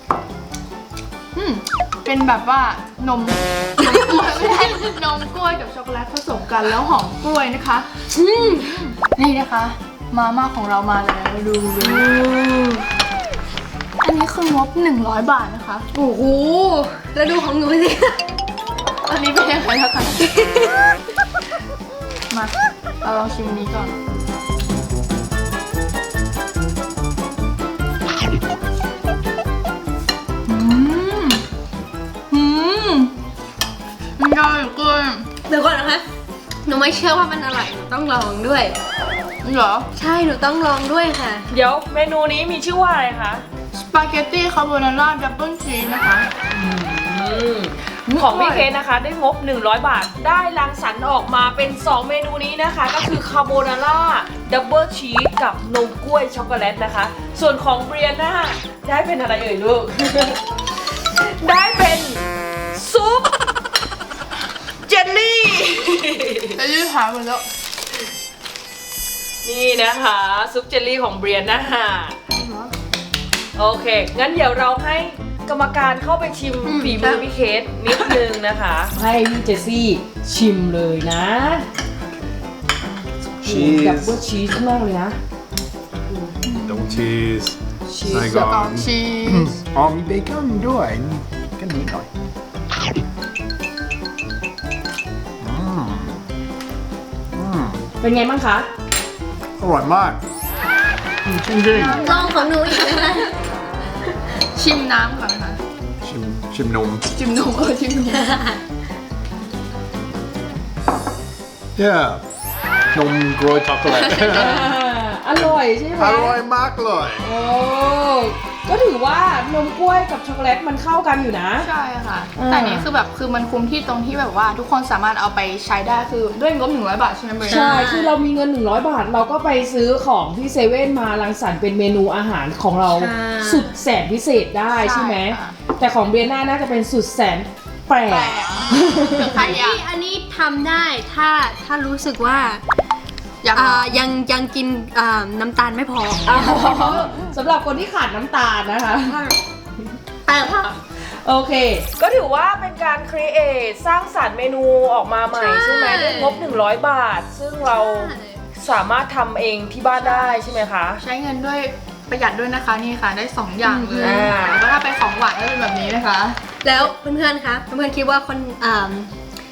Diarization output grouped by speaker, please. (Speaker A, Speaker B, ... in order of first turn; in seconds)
Speaker A: 1.3-7.9, 8.6-12.1, 14.0-15.9, 19.1-20.3, 22.3-24.0, 30.5-31.4, 32.3-33.1, 34.2-35.3, 39.4-39.9, 43.7-46.3, 48.1-48.7, 66.5-67.5, 72.3-72.8, 86.4-87.1, 88.1-89.6, 101.7-103.2, 104.5-105.6, 107.1-108.3, 114.1-114.7, 121.6-127.9, 134.7-135.6, 138.1-139.8, 143.4-144.0, 146.5-147.0, 159.9-166.4
Speaker B: 8.1-8.8, 11.8-12.9, 15.9-18.2, 20.2-20.9, 35.5-36.0, 36.6-38.8, 40.0-41.5, 76.7-77.3, 101.8-103.3, 108.2-108.6, 127.4-128.2, 132.9-133.7, 139.2-142.6, 143.5-146.5, 149.1-149.4, 150.3-150.8, 155.3-156.5, 157.7-158.4, 163.6-164.3, 166.6-169.1
Speaker C: 41.5-43.4, 46.5-63.3, 64.8-66.6, 69.4-72.2, 73.5-81.7, 83.4-85.2, 87.9-88.3, 98.0-98.7, 114.0-116.4, 117.2-121.7, 122.4-122.9, 127.4-139.3, 146.2-149.2, 151.0-161.0, 163.9-164.6
Speaker D: 83.4-84.2, 86.6-92.1, 95.4-96.2, 97.3-97.8, 99.6-100.2, 101.2-102.1, 106.0-107.1, 111.8-112.2, 112.9-114.8, 115.4-117.3